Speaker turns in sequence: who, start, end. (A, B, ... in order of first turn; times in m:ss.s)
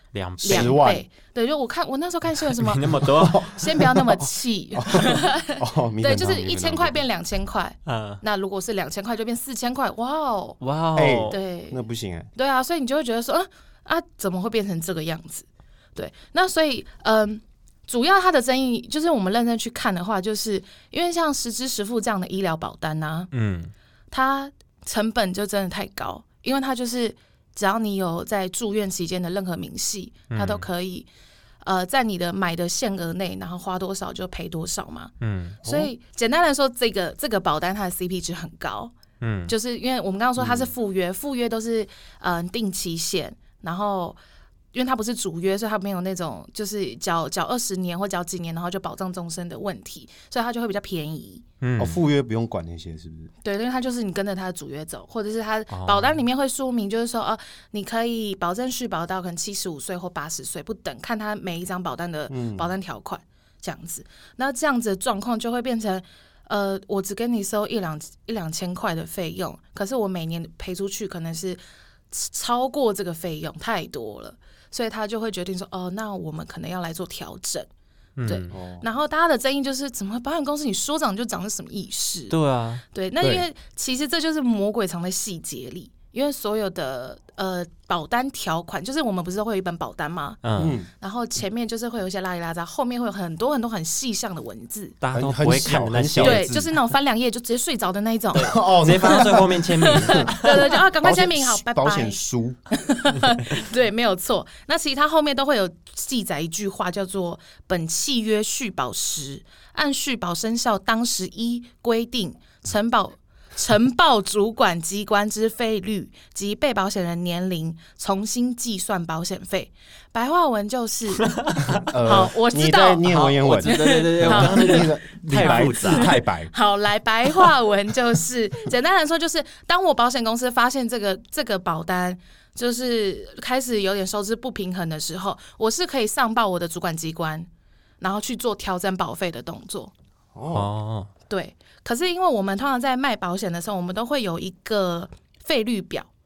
0:00.1-0:00.8 A
0:00.4-0:01.0 B
0:00.4-0:10.6 C
0:02.4-0:03.5 A
0:03.0-0:07.0 B
0:07.9-0:08.2 A
0:10.6-0:11.4 A
0:11.0-0:12.3 B
0:11.3-0:11.8 C
0:12.4-0:23.3 C
0:23.3-0:23.7 A
0:24.1-0:31.1 C
0:30.3-0:30.7 A
0:31.6-0:35.1 C
0:35.2-0:35.6 A
0:35.6-0:38.9 C
0:35.6-0:35.9 B
0:39.2-0:39.5 A
0:39.5-0:44.2 C
0:40.4-0:40.7 B
0:44.7-0:51.4 C
0:51.6-0:52.0 A
0:51.8-0:53.3 B
0:53.4-1:11.6 C
0:55.7-0:56.2 A
1:02.3-1:02.7 B
1:12.1-1:17.7 C
1:18.2-1:18.5 A
1:18.2-1:22.4 C
1:18.5-1:18.9 B
1:22.3-1:22.8 A
1:22.9-1:35.0 C
1:30.4-1:30.8 A
1:30.6-1:30.9 B
1:35.0-1:36.5 A
1:35.1-1:36.7 B
1:36.2-1:42.2 C
1:38.3-1:40.8 A
1:38.4-1:40.3 B
1:40.8-1:42.6 B
1:42.7-2:01.4 C
2:01.3-2:01.8 A
2:01.8-2:06.5 B
2:02.0-2:04.9 C
2:03.0-2:06.2 A
2:05.4-2:17.5 C
2:18.0-2:19.9 C
2:20.3-2:20.7 B
2:20.5-2:21.1 A
2:21.3-2:26.1 C